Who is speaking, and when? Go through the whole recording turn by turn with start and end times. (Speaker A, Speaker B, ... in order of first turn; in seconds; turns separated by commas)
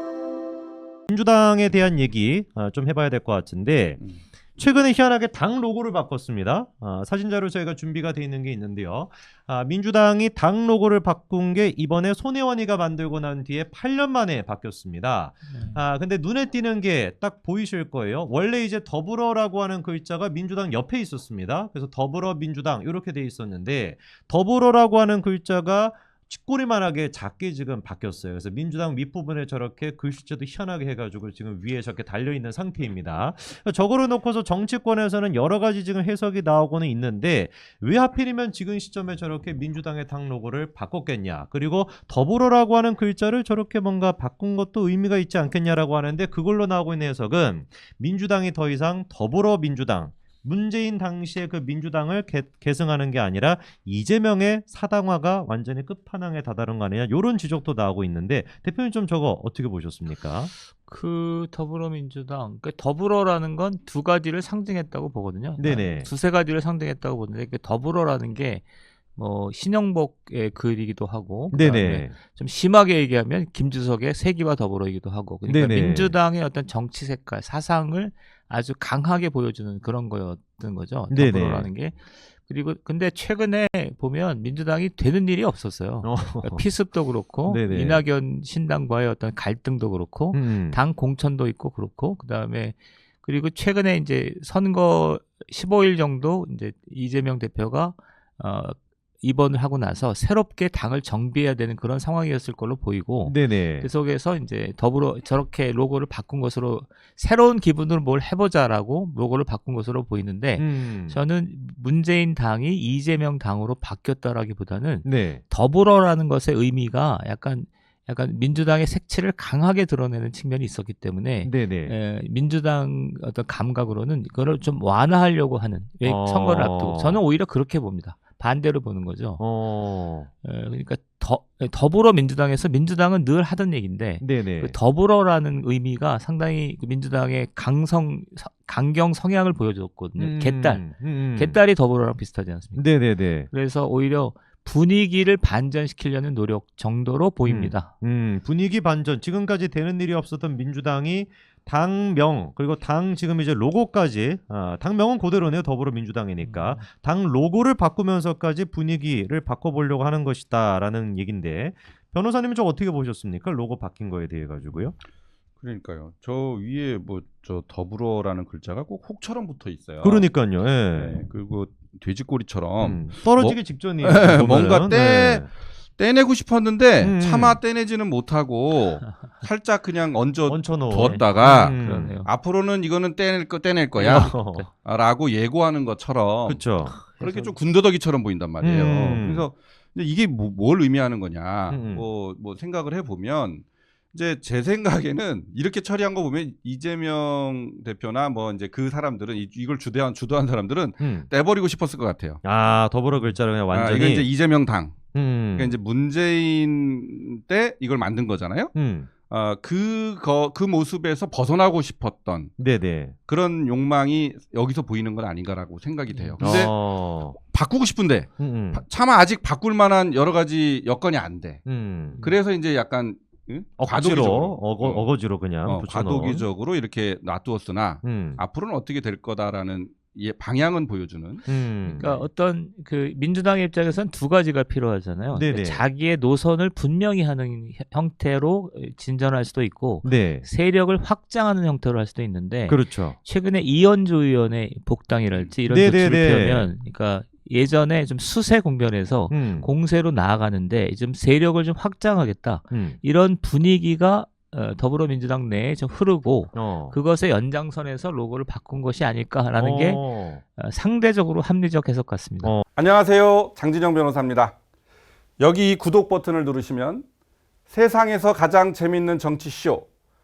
Speaker A: 1.1-4.0, Speaker A: 4.6-60.5, Speaker B: 15.5-15.8, Speaker B: 60.8-68.6, Speaker A: 65.6-66.1, Speaker B: 69.2-129.4, Speaker A: 71.5-72.1, Speaker A: 75.5-76.2, Speaker A: 81.1-81.7, Speaker A: 86.0-86.7, Speaker A: 87.4-88.0, Speaker A: 90.3-90.8, Speaker A: 103.2-103.9, Speaker A: 110.6-111.2, Speaker A: 115.0-115.4, Speaker A: 121.4-122.0, Speaker A: 126.0-127.2, Speaker A: 129.4-130.3, Speaker B: 130.4-147.9, Speaker A: 134.2-134.8, Speaker A: 140.2-141.6, Speaker A: 142.8-143.5, Speaker A: 147.4-164.9, Speaker B: 156.4-156.8, Speaker C: 165.6-170.3, Speaker A: 170.0-171.2, Speaker C: 170.9-202.4, Speaker A: 172.8-175.5, Speaker A: 177.0-177.6, Speaker A: 180.5-182.2, Speaker B: 180.9-182.3, Speaker B: 183.9-184.7, Speaker A: 184.1-184.7, Speaker A: 186.4-187.0, Speaker B: 186.8-187.6, Speaker A: 188.6-189.4, Speaker A: 191.7-192.0, Speaker A: 201.0-201.3, Speaker A: 202.4-204.3, Speaker C: 203.7-205.0, Speaker A: 205.1-205.7, Speaker C: 205.5-208.7, Speaker A: 208.7-209.1, Speaker C: 209.3-212.5, Speaker A: 212.6-213.1, Speaker C: 213.3-216.7, Speaker B: 216.1-216.7, Speaker A: 216.4-217.4, Speaker C: 217.3-221.6, Speaker A: 218.4-218.8, Speaker A: 221.7-222.2, Speaker C: 222.2-225.1, Speaker A: 223.8-226.4, Speaker C: 225.6-231.4, Speaker A: 228.0-228.4, Speaker A: 231.4-232.2, Speaker B: 231.8-262.6, Speaker A: 235.3-235.9, Speaker A: 240.0-240.4, Speaker A: 242.7-243.2, Speaker A: 245.7-246.7, Speaker A: 249.3-249.7, Speaker A: 252.7-253.0, Speaker A: 256.5-257.0, Speaker A: 259.6-260.4, Speaker C: 262.8-264.5, Speaker C: 265.4-267.0, Speaker C: 267.7-269.9